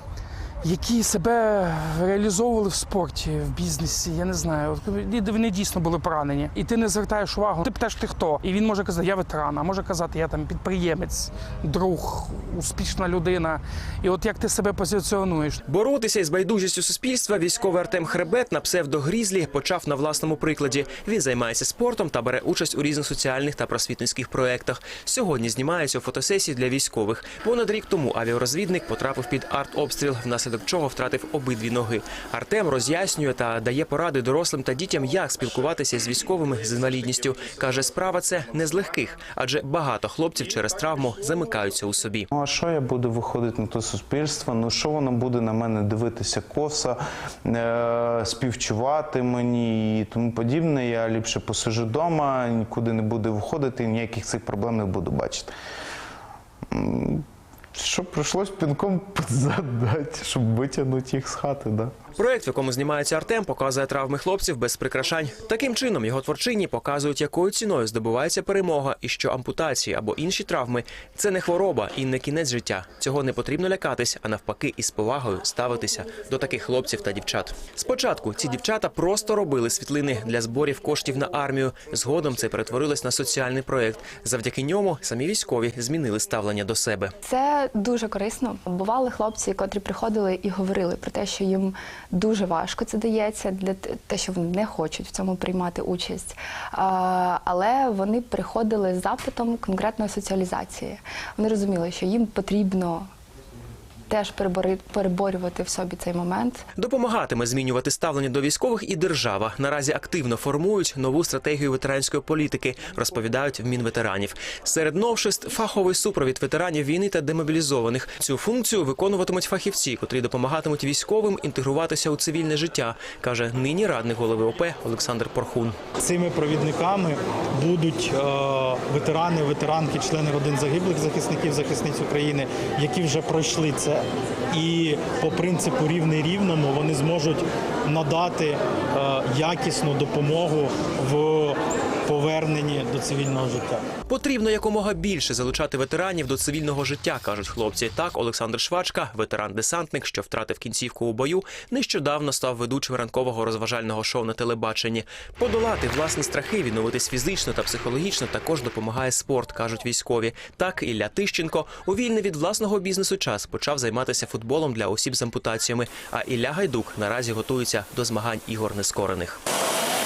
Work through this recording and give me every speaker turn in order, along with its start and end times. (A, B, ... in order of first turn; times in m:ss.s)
0:00.6-0:15.6 A
0:15.7-0:42.3 B
0:42.3-0:55.5 C
0:56.7-1:01.9 C
1:02.2-1:27.2 B
1:27.2-1:43.1 D
1:44.1-1:46.6 D
1:46.8-2:05.8 B
2:06.0-2:23.8 E
2:24.1-2:49.4 B